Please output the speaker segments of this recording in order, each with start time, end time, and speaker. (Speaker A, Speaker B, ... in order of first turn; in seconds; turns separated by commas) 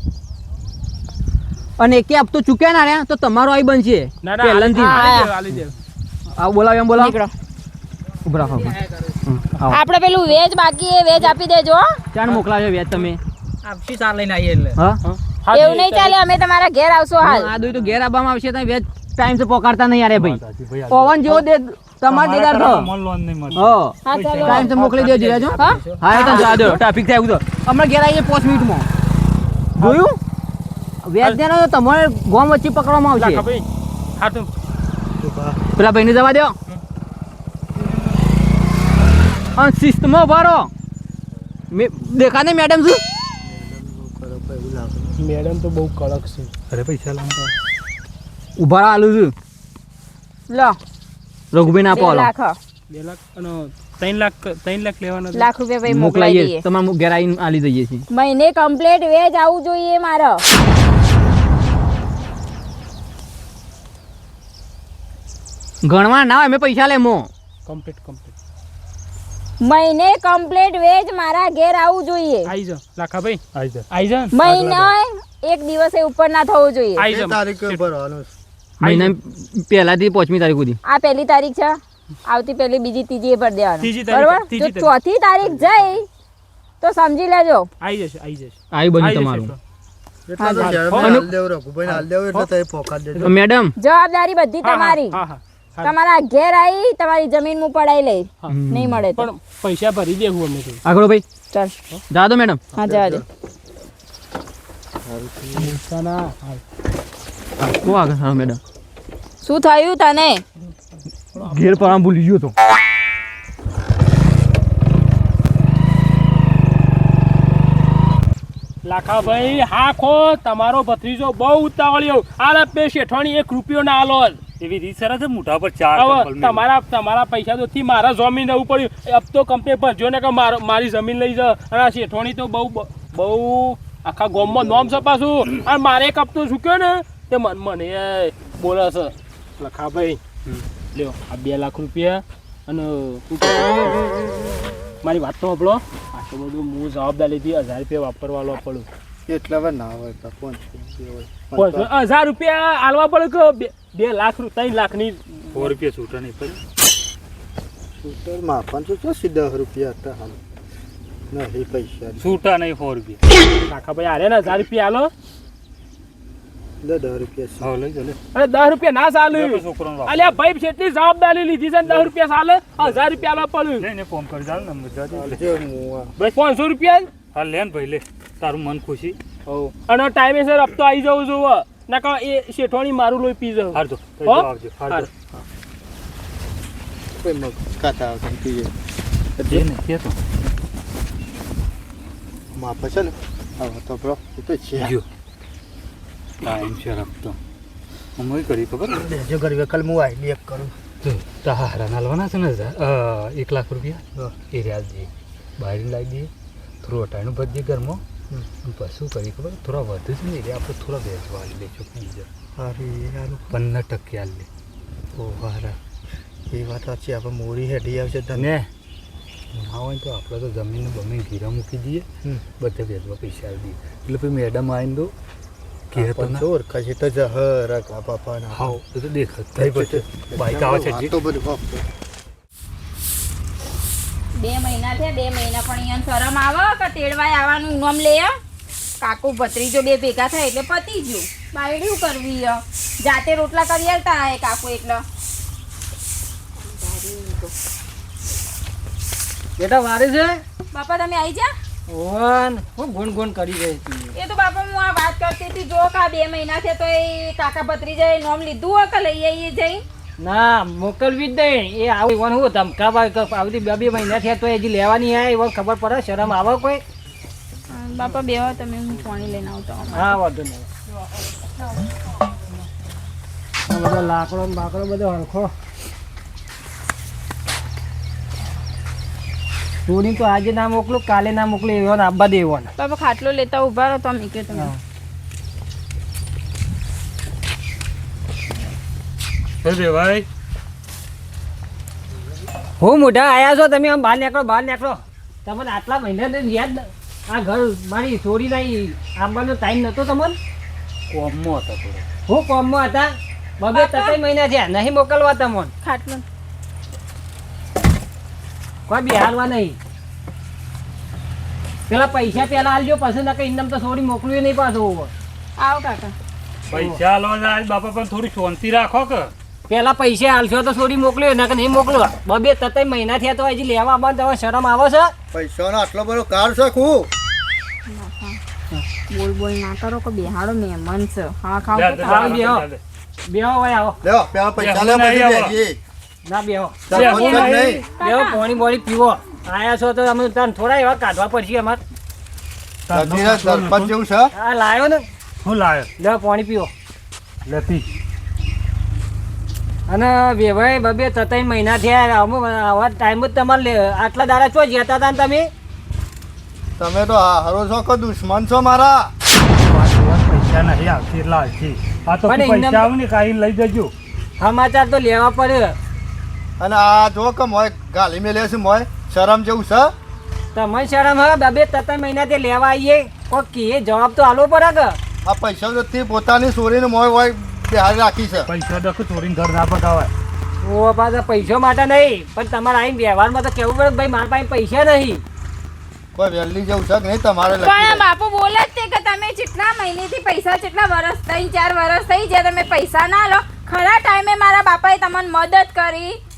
Speaker A: 1.8-5.6, Speaker B: 4.2-5.8, Speaker C: 4.8-5.3, Speaker A: 6.3-7.2, Speaker C: 7.0-7.3, Speaker A: 8.2-9.8, Speaker C: 9.7-11.9, Speaker A: 12.1-13.2, Speaker B: 13.7-16.2, Speaker C: 15.5-17.5, Speaker A: 17.2-22.9, Speaker D: 20.1-21.4, Speaker D: 22.1-24.6, Speaker A: 23.5-28.9, Speaker C: 24.0-24.7, Speaker B: 24.1-26.8, Speaker C: 25.6-26.7, Speaker A: 29.8-30.2, Speaker B: 29.8-30.0, Speaker A: 31.0-33.4, Speaker B: 33.2-33.6, Speaker B: 34.2-34.5, Speaker E: 35.2-35.6, Speaker A: 35.8-36.5, Speaker A: 39.5-40.7, Speaker A: 41.7-43.0, Speaker E: 43.4-45.2, Speaker B: 45.2-46.5, Speaker D: 46.7-47.4, Speaker A: 48.6-49.3, Speaker C: 50.5-50.8, Speaker A: 51.5-52.3, Speaker C: 51.9-52.5, Speaker B: 52.9-55.5, Speaker C: 55.3-56.6, Speaker A: 55.9-58.0, Speaker C: 58.1-60.4, Speaker A: 65.8-67.3, Speaker B: 67.7-68.3, Speaker C: 69.6-72.5, Speaker B: 72.5-74.3, Speaker D: 73.5-73.8, Speaker C: 74.3-77.1, Speaker D: 74.4-74.9, Speaker B: 77.0-77.8, Speaker E: 77.1-78.3, Speaker A: 78.8-80.8, Speaker B: 78.8-79.1, Speaker C: 80.8-86.0, Speaker B: 83.8-84.9, Speaker C: 86.8-87.7, Speaker B: 87.8-89.6, Speaker A: 88.7-89.5, Speaker E: 90.3-93.3, Speaker C: 90.4-90.8, Speaker B: 90.6-91.2, Speaker A: 91.0-91.3, Speaker B: 91.9-92.5, Speaker A: 93.2-93.7, Speaker C: 93.8-95.2, Speaker B: 94.6-96.0, Speaker C: 95.8-99.3, Speaker A: 98.5-99.0, Speaker B: 99.1-100.8, Speaker A: 100.8-101.2, Speaker A: 102.1-102.6, Speaker E: 102.7-103.2, Speaker C: 102.8-103.2, Speaker E: 105.0-105.8, Speaker B: 105.6-106.6, Speaker A: 107.6-108.6, Speaker C: 109.4-110.4, Speaker B: 110.6-112.0, Speaker A: 111.3-112.5, Speaker B: 118.8-124.4, Speaker D: 124.6-126.6, Speaker B: 125.9-140.2, Speaker E: 134.4-135.0, Speaker B: 140.9-144.2, Speaker B: 145.0-148.9, Speaker E: 149.3-151.9, Speaker B: 151.6-155.7, Speaker D: 155.5-156.6, Speaker E: 158.0-160.4, Speaker E: 161.3-162.4, Speaker D: 162.2-163.2, Speaker B: 163.7-165.1, Speaker E: 166.8-167.7, Speaker D: 167.6-168.2, Speaker B: 168.3-173.9, Speaker D: 169.3-170.4, Speaker D: 173.8-175.5, Speaker E: 175.1-176.1, Speaker B: 176.2-177.1, Speaker D: 177.3-179.2, Speaker B: 179.5-185.1, Speaker D: 183.7-185.1, Speaker E: 187.2-188.7, Speaker E: 189.4-189.7, Speaker D: 189.5-190.2, Speaker E: 192.5-194.9, Speaker D: 194.8-195.0, Speaker D: 196.4-197.4, Speaker D: 198.2-199.1, Speaker E: 198.9-200.7, Speaker D: 201.0-206.3, Speaker D: 206.8-208.0, Speaker D: 208.6-212.3, Speaker E: 212.6-213.5, Speaker D: 213.5-214.5, Speaker E: 215.2-215.8, Speaker E: 216.5-218.5, Speaker D: 218.3-218.7, Speaker D: 219.5-222.1, Speaker D: 222.6-225.1, Speaker D: 225.9-226.4, Speaker E: 225.9-228.8, Speaker D: 228.5-231.2, Speaker E: 229.6-231.8, Speaker C: 234.4-238.3, Speaker C: 239.0-245.0, Speaker C: 246.6-247.5, Speaker F: 249.6-250.4, Speaker C: 250.7-251.5, Speaker F: 251.9-254.1, Speaker C: 254.1-259.8, Speaker F: 260.2-266.8, Speaker C: 267.7-270.2, Speaker F: 269.9-270.7, Speaker F: 273.7-275.5, Speaker F: 279.9-282.7, Speaker C: 282.8-284.7, Speaker D: 289.6-290.2, Speaker F: 292.8-300.4, Speaker D: 301.1-302.0, Speaker F: 302.3-305.7, Speaker C: 303.7-304.1, Speaker C: 305.8-306.2, Speaker F: 308.9-309.8, Speaker F: 311.9-315.1, Speaker C: 315.6-316.1, Speaker D: 316.7-319.3, Speaker F: 316.7-317.0, Speaker F: 319.7-325.1, Speaker E: 325.3-327.1, Speaker C: 327.9-328.4, Speaker C: 329.1-332.4, Speaker D: 331.7-332.8, Speaker F: 332.0-332.7, Speaker F: 333.2-334.0, Speaker E: 334.0-335.8, Speaker D: 334.6-335.6, Speaker F: 336.2-336.8, Speaker E: 336.9-337.9, Speaker D: 336.9-337.7, Speaker C: 336.9-338.4, Speaker F: 338.0-341.8, Speaker D: 342.9-343.9, Speaker E: 342.9-344.3, Speaker F: 344.3-345.1, Speaker D: 345.4-345.9, Speaker F: 346.0-346.7, Speaker D: 347.4-347.9, Speaker F: 349.9-355.5, Speaker E: 356.8-359.1, Speaker D: 359.6-363.9, Speaker F: 362.2-362.9, Speaker F: 364.4-365.8, Speaker E: 366.6-369.9, Speaker F: 370.5-375.0, Speaker E: 375.2-378.5, Speaker D: 378.5-380.1, Speaker F: 380.6-385.2, Speaker E: 386.1-388.0, Speaker C: 387.6-396.1